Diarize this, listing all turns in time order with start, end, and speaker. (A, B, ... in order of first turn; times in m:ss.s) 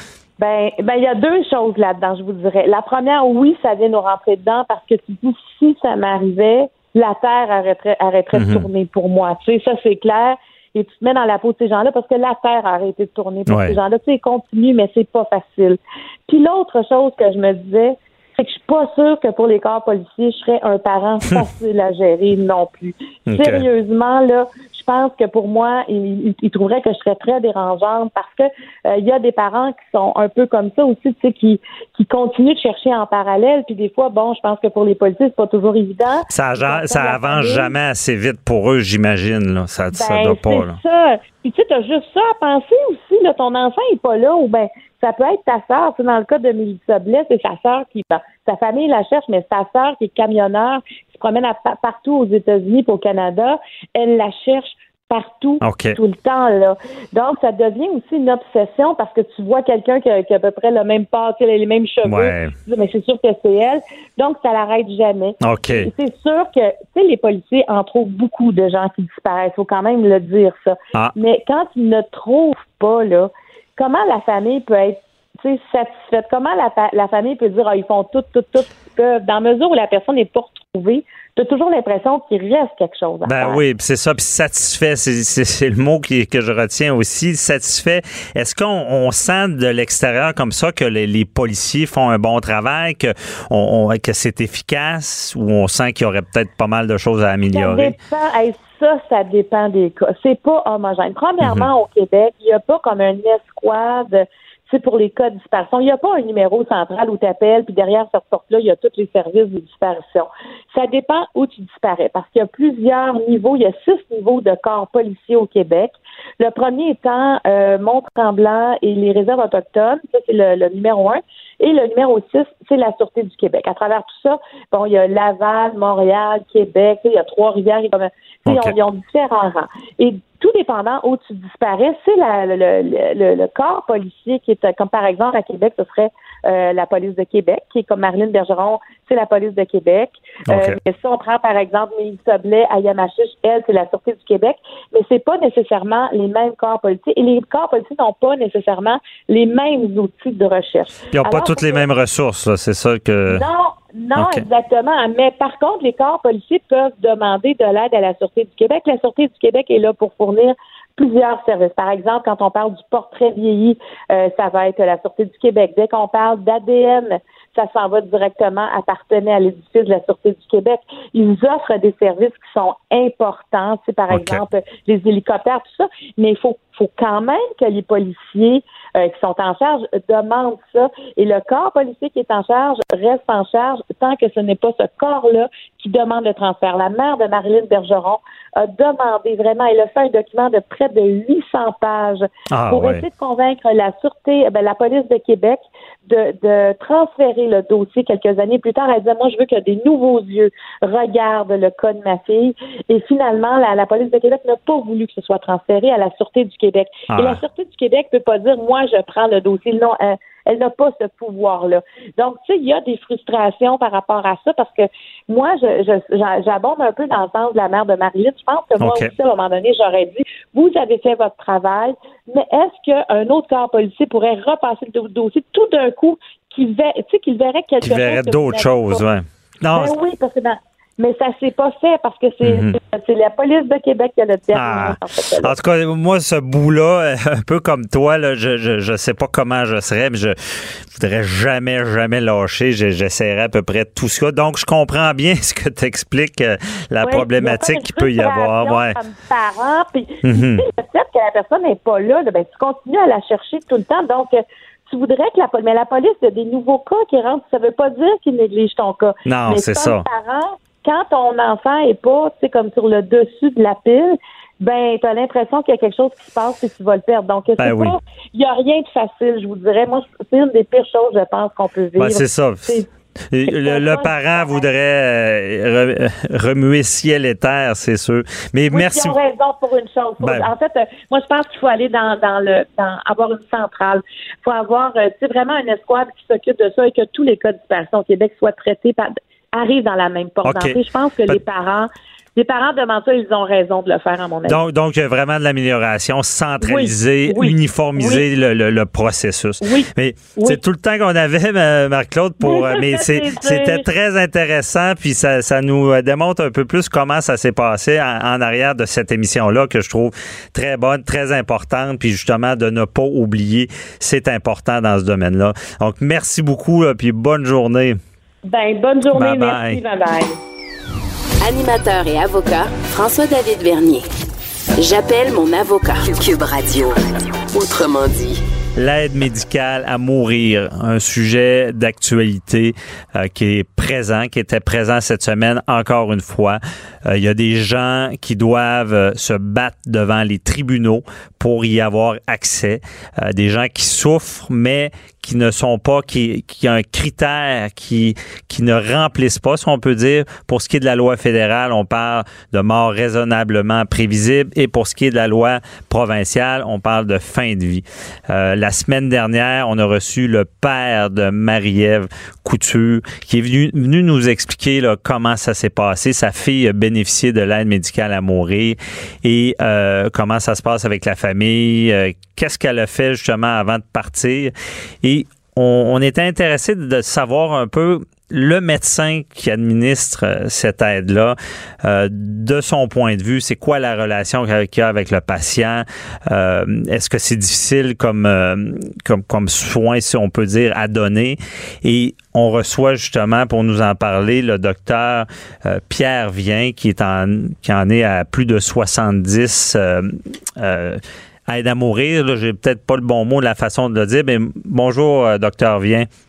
0:00.4-0:37.7 A
0:08.3-0:08.7 B
0:13.5-0:13.8 B
0:23.3-0:23.7 B
0:36.3-0:40.8 B
0:39.9-1:23.6 A
0:55.6-0:56.0 B
1:02.0-1:02.5 B
1:05.4-1:05.9 B
1:23.3-1:38.0 B
1:37.5-2:31.8 A
1:41.4-1:41.7 B
2:08.5-2:08.8 B
2:20.5-2:20.8 B
2:31.1-2:33.4 B
2:33.3-3:49.0 A
2:34.2-2:34.4 B
2:54.1-2:54.4 B
3:12.5-3:13.0 B
3:27.1-3:27.4 B
3:38.8-3:39.1 B
3:47.8-3:49.9 B
3:49.7-3:55.6 A
3:52.4-3:52.8 B
3:54.5-4:09.0 B
4:07.0-4:32.9 A
4:10.2-4:10.6 B
4:19.3-4:20.0 B
4:27.6-4:28.0 B
4:32.0-4:39.1 B
4:33.5-4:34.6 A
4:38.7-4:54.6 A
4:40.2-4:40.5 B
4:50.4-4:51.4 B
4:54.5-5:18.0 B
4:56.6-4:58.2 A
4:59.6-5:00.6 A
5:02.4-5:03.9 A
5:18.4-5:20.4 A
5:19.1-5:19.8 B
5:21.4-5:24.1 C
5:24.8-5:28.4 C
5:28.8-6:46.1 B